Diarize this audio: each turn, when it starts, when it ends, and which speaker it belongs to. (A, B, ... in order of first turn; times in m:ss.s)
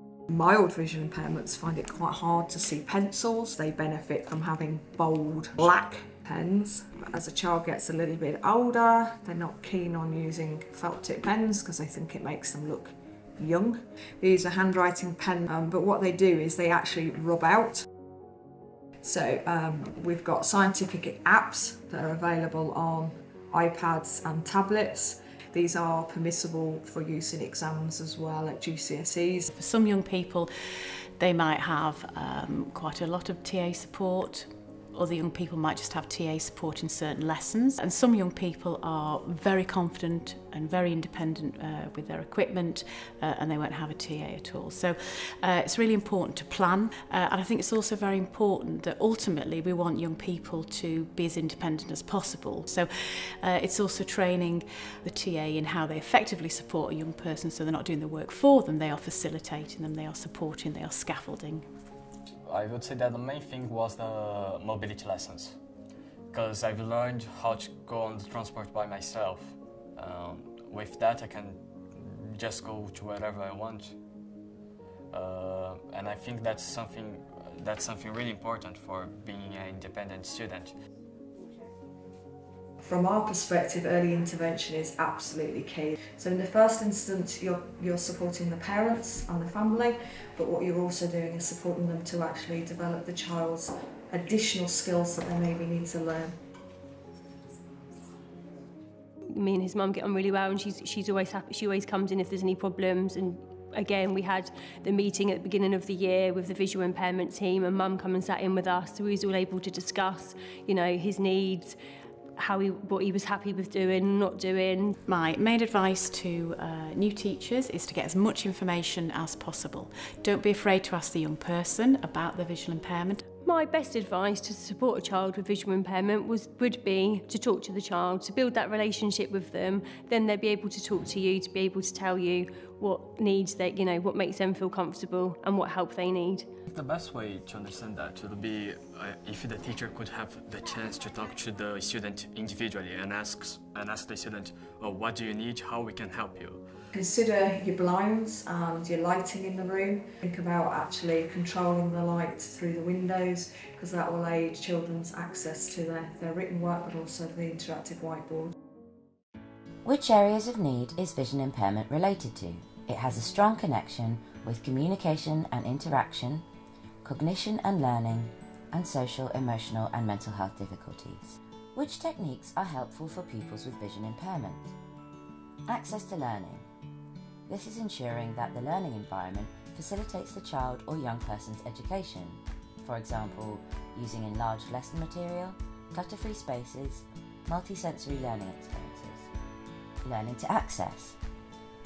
0:00.3-0:17.8 A
0:19.0-0:29.5 A
0:29.5-0:30.5 B
0:31.2-1:01.7 B
1:02.4-1:05.6 C
1:06.3-1:14.0 C
1:15.1-1:20.7 C
1:22.8-1:36.3 A
1:39.3-1:51.8 D
1:52.4-1:54.9 D
1:55.0-2:03.2 B
2:03.4-2:16.4 D
2:16.7-2:26.6 C
2:26.9-2:38.5 A
2:39.8-2:46.4 E
2:47.0-2:54.7 E
2:55.7-2:56.6 E
2:57.5-3:09.3 E
3:10.0-3:11.2 E